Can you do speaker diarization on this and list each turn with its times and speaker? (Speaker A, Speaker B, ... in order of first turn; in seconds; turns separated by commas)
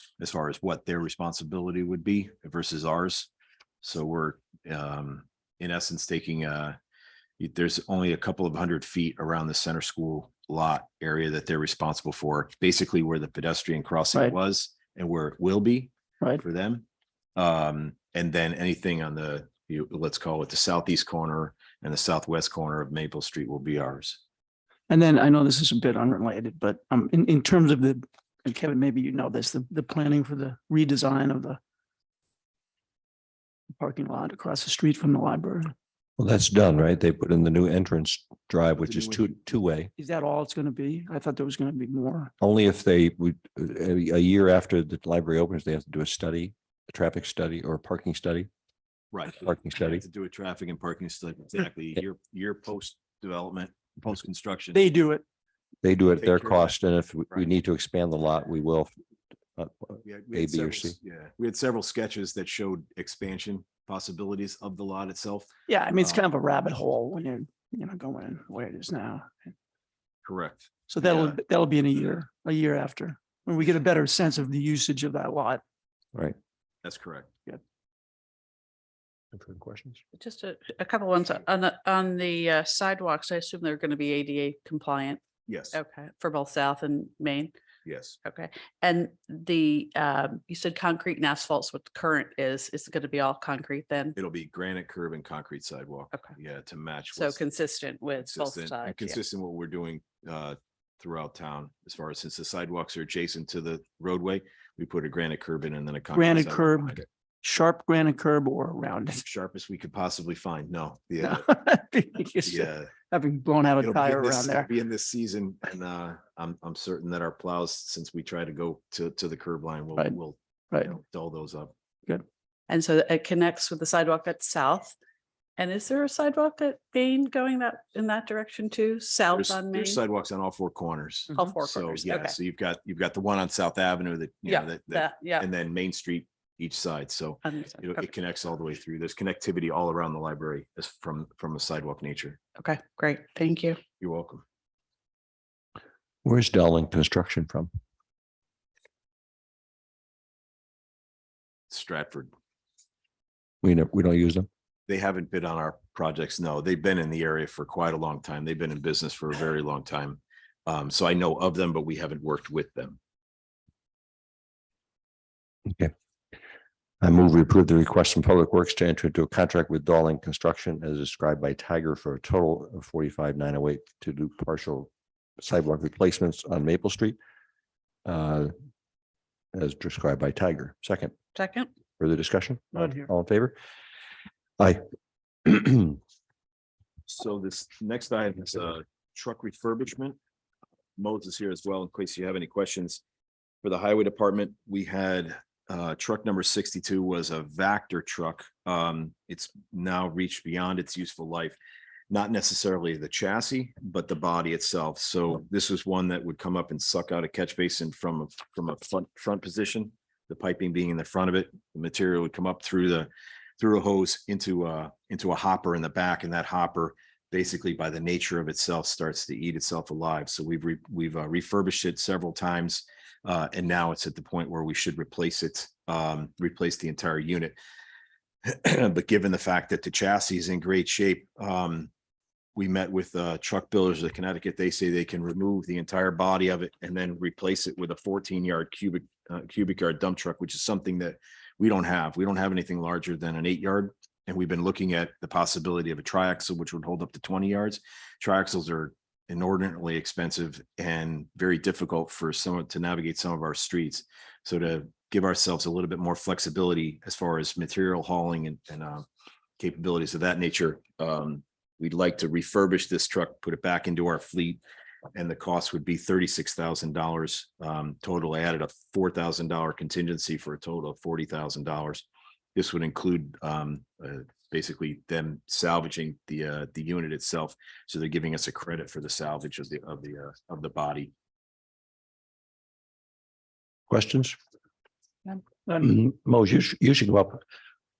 Speaker A: 0.2-3.3, Speaker A: 3.8-6.8, Speaker A: 7.4-16.8, Speaker B: 14.1-14.4, Speaker A: 17.4-24.2, Speaker B: 24.9-31.6, Speaker B: 33.8-35.7, Speaker C: 36.2-39.9, Speaker A: 38.8-39.3, Speaker B: 40.0-42.3, Speaker C: 42.4-48.5, Speaker A: 49.1-54.8, Speaker C: 49.4-50.0, Speaker B: 54.7-55.2, Speaker C: 55.8-58.9, Speaker A: 56.2-56.8, Speaker C: 59.5-61.0, Speaker A: 60.0-66.2, Speaker B: 65.7-69.5, Speaker A: 70.2-71.4, Speaker B: 70.9-75.6, Speaker A: 76.8-77.3, Speaker C: 79.3-80.0, Speaker D: 80.1-87.5, Speaker A: 85.5-85.8, Speaker A: 87.8-88.2, Speaker D: 88.2-94.1, Speaker A: 94.2-97.4, Speaker D: 97.1-99.2, Speaker A: 98.2-107.0, Speaker B: 106.1-109.2, Speaker A: 109.2-111.5, Speaker B: 111.2-114.7, Speaker A: 112.4-112.9, Speaker A: 113.8-121.7, Speaker B: 120.7-121.0, Speaker D: 122.7-125.0, Speaker D: 125.6-130.0, Speaker A: 129.3-142.4, Speaker D: 131.3-132.3, Speaker D: 134.4-135.5, Speaker D: 137.4-138.1, Speaker D: 142.6-143.8, Speaker A: 144.0-144.4, Speaker C: 146.2-147.7, Speaker A: 151.7-152.3, Speaker C: 153.6-154.5, Speaker A: 154.9-163.0, Speaker C: 167.0-177.2, Speaker C: 178.0-178.5, Speaker C: 179.5-181.1, Speaker D: 181.3-181.7, Speaker C: 182.0-183.6, Speaker B: 182.7-183.1, Speaker C: 185.4-186.0, Speaker A: 187.1-190.2, Speaker A: 191.0-193.0, Speaker A: 193.6-201.6, Speaker A: 202.1-227.6, Speaker A: 228.4-231.9, Speaker A: 232.5-259.1, Speaker A: 259.6-264.6, Speaker A: 265.1-281.1, Speaker C: 283.9-284.4, Speaker C: 285.8-287.4